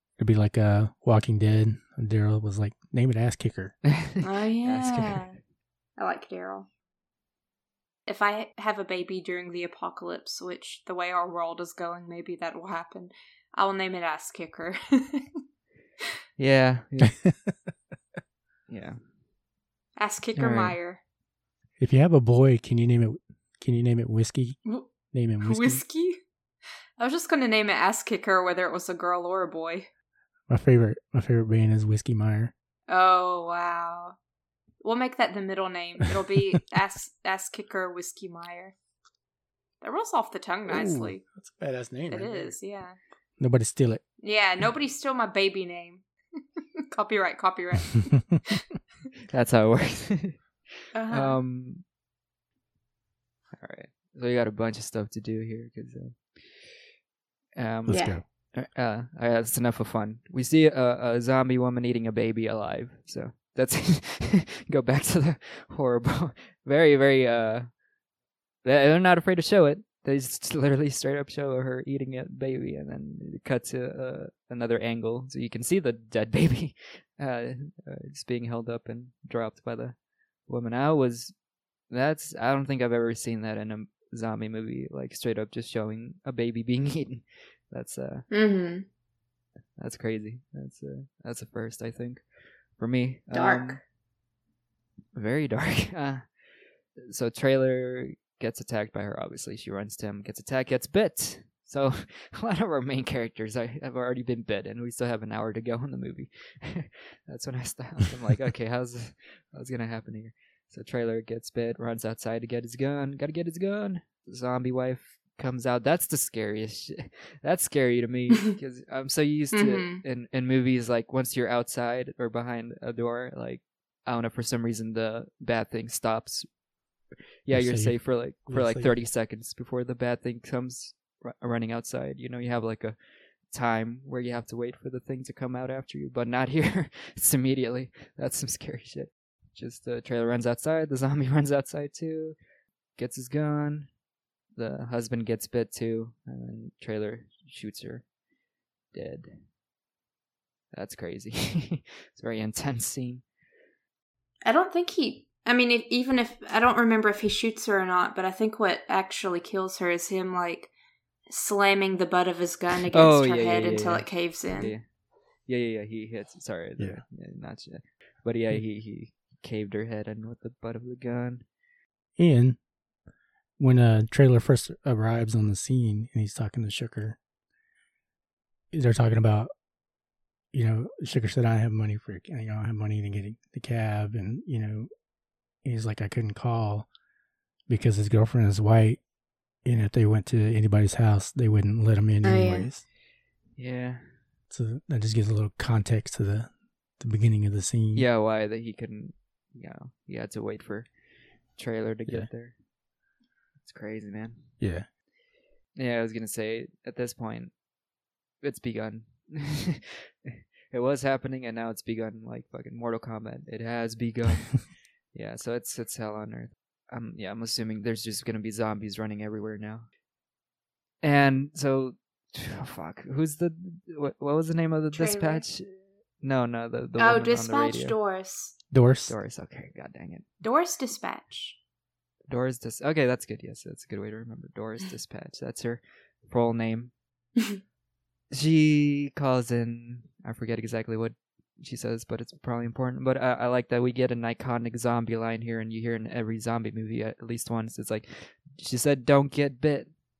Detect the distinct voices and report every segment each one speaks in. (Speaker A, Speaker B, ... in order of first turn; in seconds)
Speaker A: 0.2-3.8, 21.8-24.6, 25.1-25.8, 30.5-32.5, 40.7-42.5, 43.4-44.0, 57.9-58.2, 127.5-128.9, 172.2-172.6, 173.6-177.2, 178.7-179.5, 180.5-184.9, 185.6-186.9, 187.7-189.0, 189.6-192.8, 194.5-198.1, 204.6-204.9, 228.7-229.2
Speaker B: 3.9-5.3, 16.4-17.2, 18.7-19.0, 20.4-20.8, 49.3-50.5, 51.1-51.8, 53.5-56.9, 57.6-67.7, 68.6-81.3, 81.9-88.3, 89.8-92.2, 92.8-93.8, 95.1-96.3, 97.0-126.5, 127.5-133.0, 133.5-142.4, 143.0-143.9, 144.6-148.1, 148.9-149.4, 150.7-153.2, 162.9-164.8, 165.5-171.4, 193.6-194.1, 197.9-200.9, 201.6-202.6, 203.6-204.5, 205.8-207.5, 208.4-219.9, 221.0-227.9, 229.1-230.3, 232.3-236.9, 238.3-249.9
Speaker C: 4.2-5.4, 6.0-6.7, 8.1-15.3, 20.0-21.0, 25.4-26.2, 27.0-29.9, 32.9-34.1, 34.8-38.8, 39.8-41.2, 42.1-43.0, 44.2-46.0, 46.9-48.6, 50.9-51.4, 57.9-58.2, 88.3-88.9, 93.3-93.8, 119.5-120.0, 154.4-160.7, 161.3-164.8, 192.2-192.7, 224.9-225.4, 227.0-228.5, 230.4-231.6